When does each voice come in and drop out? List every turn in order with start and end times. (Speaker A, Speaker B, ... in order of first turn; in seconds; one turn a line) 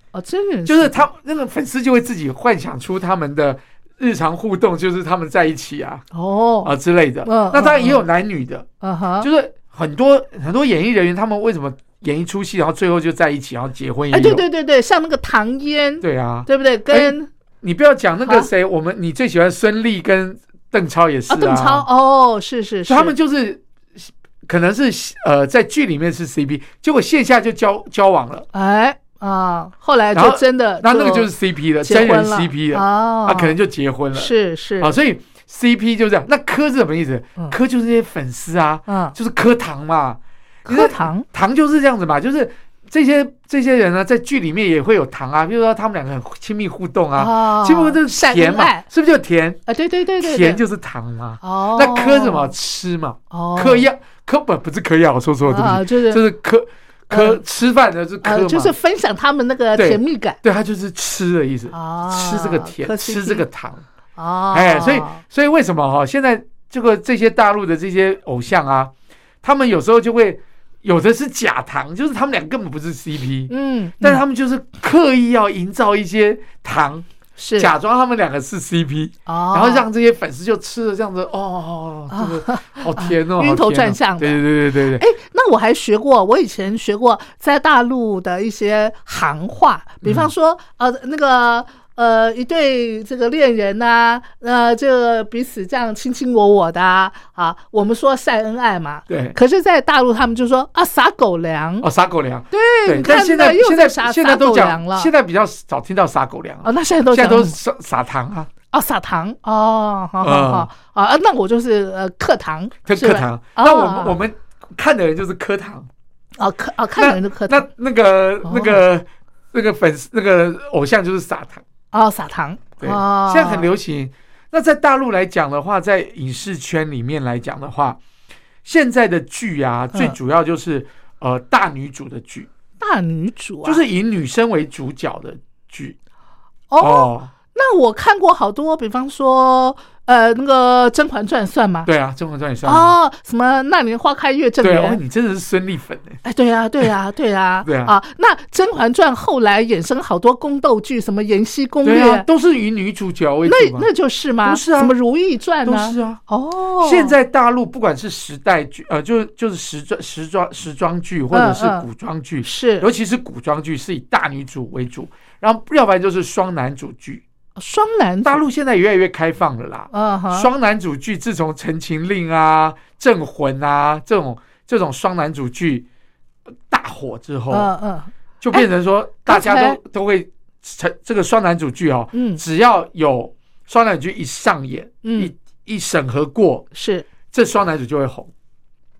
Speaker A: 0.1-1.1
Speaker B: 0.7-6.0
Speaker A: 6.1-6.7
Speaker B: 6.6-8.7
Speaker A: 7.2-8.0
Speaker A: 8.8-9.3
Speaker B: 9.2-14.4
Speaker A: 14.1-17.3
Speaker B: 16.0-21.9
Speaker A: 21.3-23.1
Speaker B: 22.9-28.4
Speaker A: 28.5-31.3
Speaker B: 30.1-49.6
Speaker A: 31.8-33.5
Speaker A: 34.1-34.9
Speaker A: 38.9-39.1
Speaker A: 40.6-41.2
Speaker A: 47.1-48.8
Speaker A: 49.7-50.6
Speaker B: 50.2-58.7
Speaker A: 51.4-52.5
Speaker A: 53.3-53.9
Speaker A: 55.5-56.2
Speaker A: 57.1-57.4
Speaker A: 58.2-60.4
Speaker B: 59.8-63.8
Speaker A: 61.7-63.5
Speaker A: 64.2-65.2
Speaker B: 64.5-68.9
Speaker B: 69.4-77.0
Speaker A: 73.5-74.2
Speaker A: 77.4-77.7
Speaker B: 77.6-85.0
Speaker A: 79.3-79.8
Speaker A: 82.1-84.4
Speaker A: 85.0-101.9
Speaker B: 90.0-90.3
Speaker B: 99.1-99.3
Speaker B: 101.8-108.5
Speaker A: 102.5-105.1
Speaker A: 106.6-107.5
Speaker A: 108.7-114.2
Speaker B: 110.2-110.7
Speaker B: 112.8-115.9
Speaker A: 116.4-117.7
Speaker B: 117.0-121.6
Speaker A: 118.4-118.8
Speaker A: 121.9-123.7
Speaker B: 122.8-128.0
Speaker B: 128.6-132.5
Speaker A: 132.8-133.8
Speaker B: 133.6-135.9
Speaker A: 136.7-141.9
Speaker B: 136.8-137.3
Speaker B: 141.8-142.9
Speaker A: 142.6-145.0
Speaker B: 144.6-146.2
Speaker A: 146.2-152.2
Speaker B: 147.6-147.9
Speaker B: 151.8-153.9
Speaker A: 153.4-157.1
Speaker B: 154.4-154.9
Speaker B: 155.6-156.2
Speaker B: 156.8-167.2
Speaker A: 161.3-161.8
Speaker A: 162.4-162.9
Speaker A: 167.6-168.4
Speaker B: 168.2-175.8
Speaker A: 169.9-170.5
Speaker B: 176.7-177.7
Speaker A: 177.5-178.7
Speaker B: 178.4-186.7
Speaker A: 179.2-179.8
Speaker A: 182.1-182.4
Speaker A: 185.0-185.3
Speaker A: 186.7-187.1
Speaker B: 187.3-188.3